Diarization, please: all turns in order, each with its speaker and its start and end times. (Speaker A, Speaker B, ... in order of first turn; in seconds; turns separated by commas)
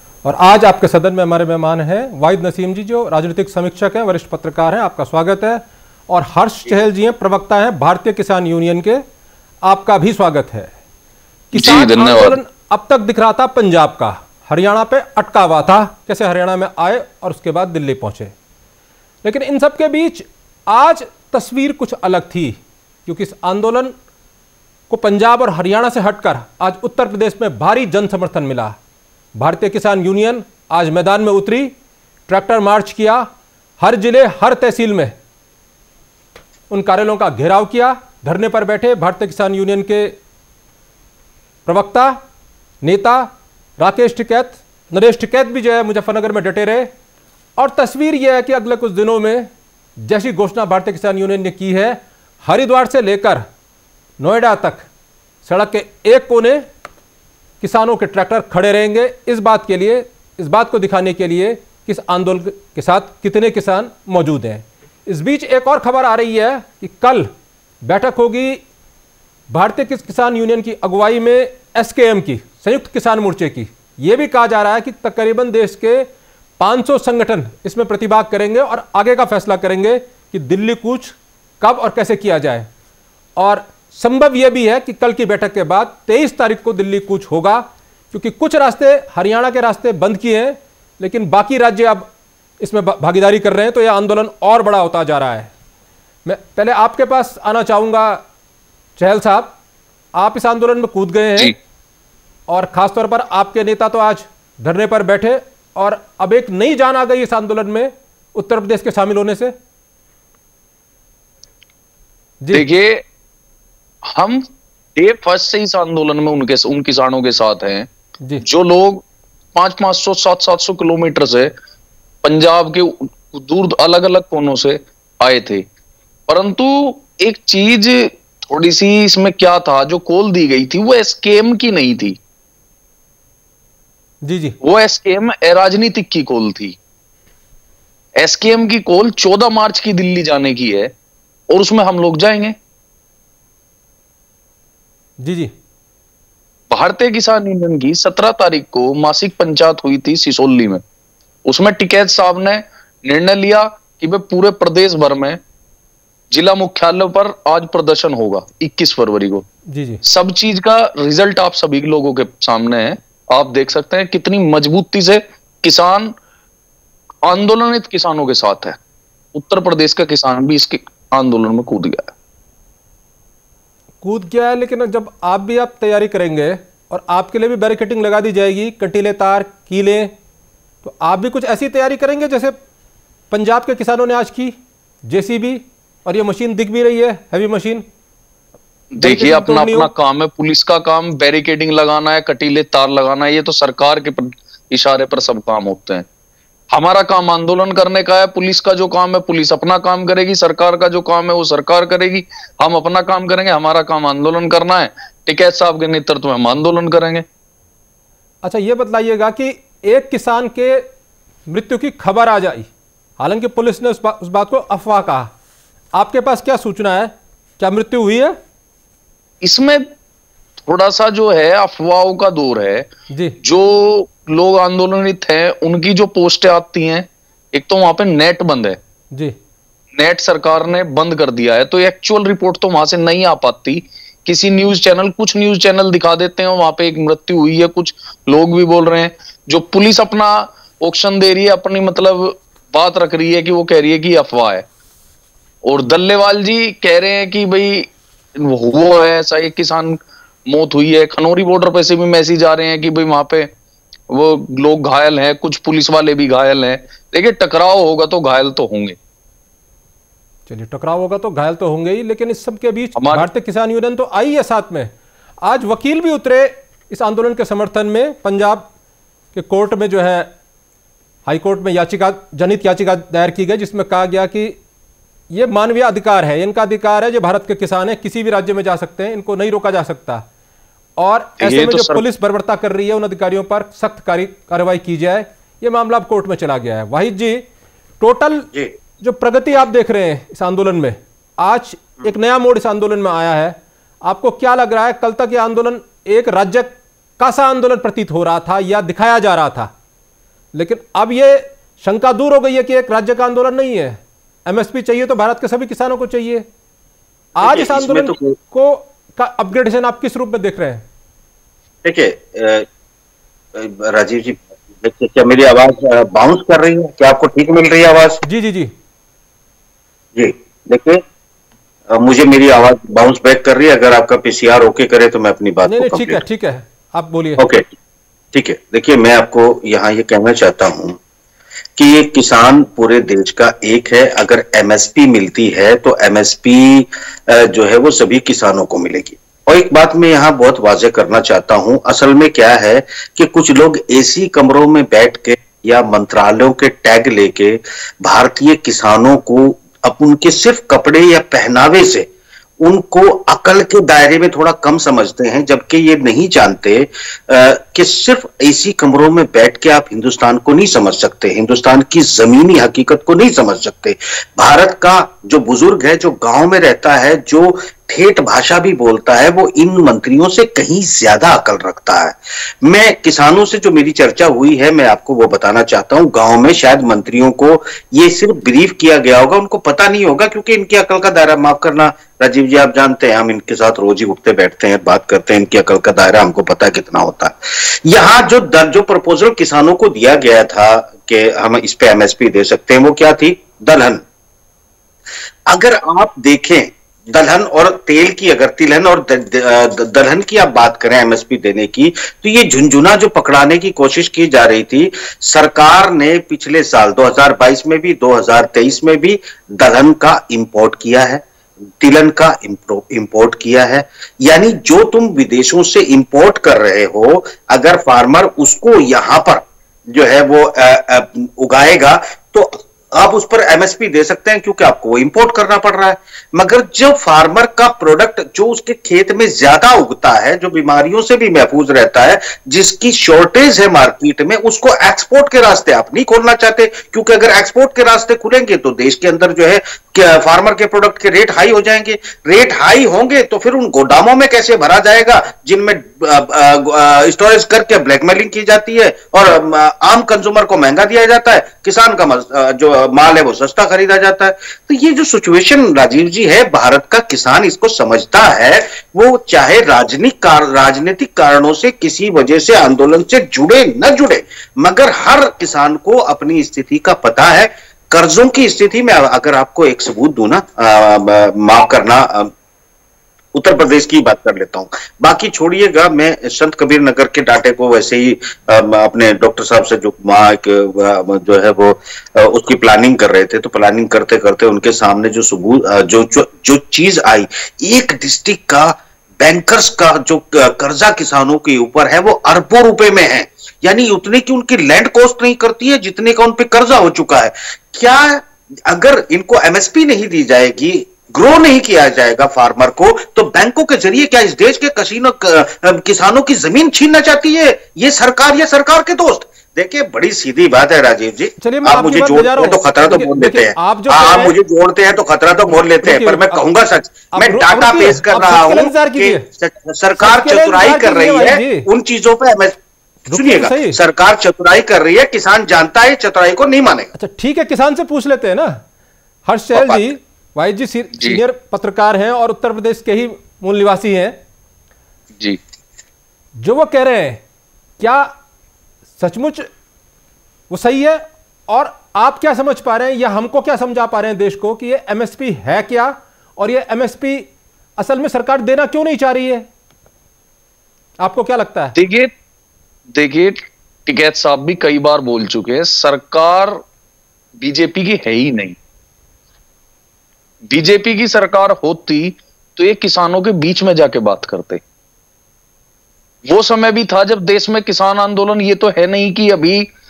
Speaker A: 0.2-9.0, Speaker A: 9.7-10.7, Speaker A: 11.5-18.3, Speaker B: 11.6-12.4, Speaker A: 19.2-23.9, Speaker A: 24.9-28.8, Speaker A: 29.4-31.7, Speaker A: 32.3-33.3, Speaker A: 33.8-35.1, Speaker A: 36.7-40.1, Speaker A: 41.7-42.2, Speaker A: 42.8-46.9, Speaker A: 47.6-49.5, Speaker A: 50.1-53.4, Speaker A: 54.2-54.9, Speaker A: 55.5-56.6, Speaker A: 57.6-67.3, Speaker A: 67.8-68.6, Speaker A: 69.5-76.1, Speaker A: 76.6-82.7, Speaker A: 83.4-92.1, Speaker A: 92.6-95.5, Speaker A: 96.2-98.2, Speaker A: 99.0-99.5, Speaker A: 100.2-101.5, Speaker A: 102.5-109.5, Speaker B: 112.5-113.0, Speaker B: 114.1-114.5, Speaker B: 115.0-117.9, Speaker B: 118.4-119.0, Speaker B: 119.5-121.5, Speaker B: 122.2-125.7, Speaker B: 126.3-132.2, Speaker A: 134.2-134.6, Speaker B: 134.6-136.8, Speaker B: 138.2-140.9, Speaker B: 141.5-142.6, Speaker A: 145.2-145.5, Speaker B: 146.7-150.8, Speaker B: 151.5-155.4, Speaker B: 156.3-159.5, Speaker A: 159.7-160.0, Speaker B: 160.0-166.1, Speaker B: 167.3-168.8, Speaker B: 169.3-172.1, Speaker A: 174.0-180.1, Speaker A: 180.8-182.6, Speaker A: 183.3-184.6, Speaker A: 185.1-187.8, Speaker B: 189.0-196.1, Speaker A: 189.0-189.9, Speaker B: 196.7-207.3, Speaker A: 208.4-210.9, Speaker A: 211.5-215.3, Speaker A: 215.9-218.4, Speaker B: 219.4-219.9, Speaker B: 220.7-222.9, Speaker A: 223.1-223.4, Speaker B: 223.4-228.8, Speaker B: 230.0-244.7, Speaker B: 245.6-253.5, Speaker B: 254.1-259.0, Speaker A: 260.5-264.9, Speaker B: 263.0-263.2, Speaker A: 265.4-268.7, Speaker A: 269.3-270.3, Speaker A: 271.3-274.6, Speaker A: 275.3-280.2, Speaker A: 281.0-287.4, Speaker B: 281.4-282.0, Speaker A: 288.0-288.5, Speaker A: 289.0-299.7, Speaker A: 300.6-306.5, Speaker A: 307.4-310.8, Speaker C: 307.4-308.4, Speaker C: 311.8-312.7, Speaker C: 313.5-318.2, Speaker A: 318.2-318.7, Speaker C: 320.1-321.0, Speaker C: 321.9-326.2, Speaker A: 325.7-327.4, Speaker C: 327.4-327.7, Speaker C: 328.3-331.0, Speaker C: 331.8-352.1, Speaker C: 352.6-394.0, Speaker C: 395.5-411.2, Speaker C: 411.8-472.3, Speaker C: 473.4-522.6, Speaker A: 511.4-514.4, Speaker A: 515.5-516.4, Speaker A: 517.1-519.3, Speaker A: 520.0-521.7, Speaker A: 523.1-523.8, Speaker C: 523.1-526.9, Speaker A: 527.0-528.6, Speaker A: 529.3-534.2, Speaker C: 529.5-529.9, Speaker A: 536.4-537.2, Speaker A: 537.8-538.1, Speaker A: 539.0-539.5, Speaker A: 540.5-549.5, Speaker A: 551.0-551.7, Speaker B: 551.8-552.1, Speaker B: 553.0-556.6, Speaker B: 557.4-558.6, Speaker B: 560.5-564.6, Speaker B: 566.3-569.7